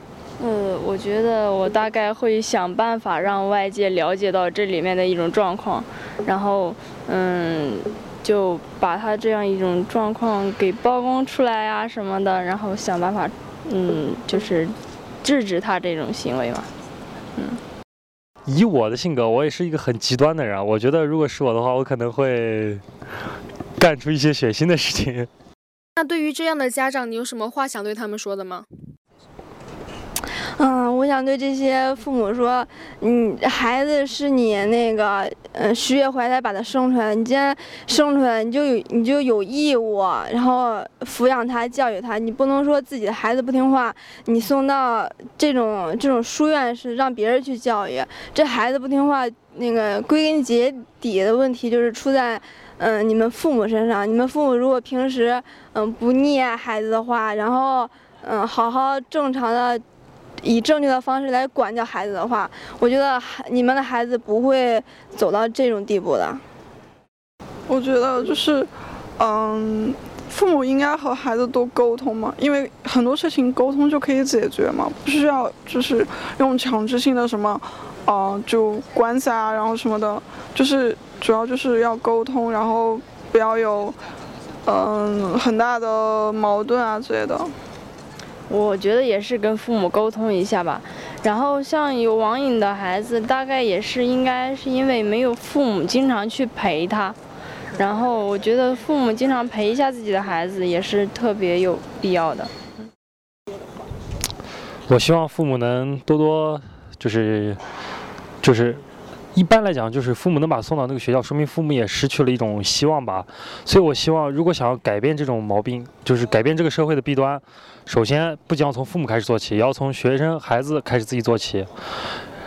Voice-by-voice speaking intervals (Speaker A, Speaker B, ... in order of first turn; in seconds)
Speaker A: 0.4-16.7, 88.5-97.2, 97.8-102.5
Speaker B: 18.5-22.8, 23.8-25.3, 104.9-107.6, 108.4-108.8, 109.3-121.7
Speaker C: 26.0-28.7
Speaker D: 30.6-59.8, 60.4-66.4
Speaker E: 67.7-84.0, 84.7-87.5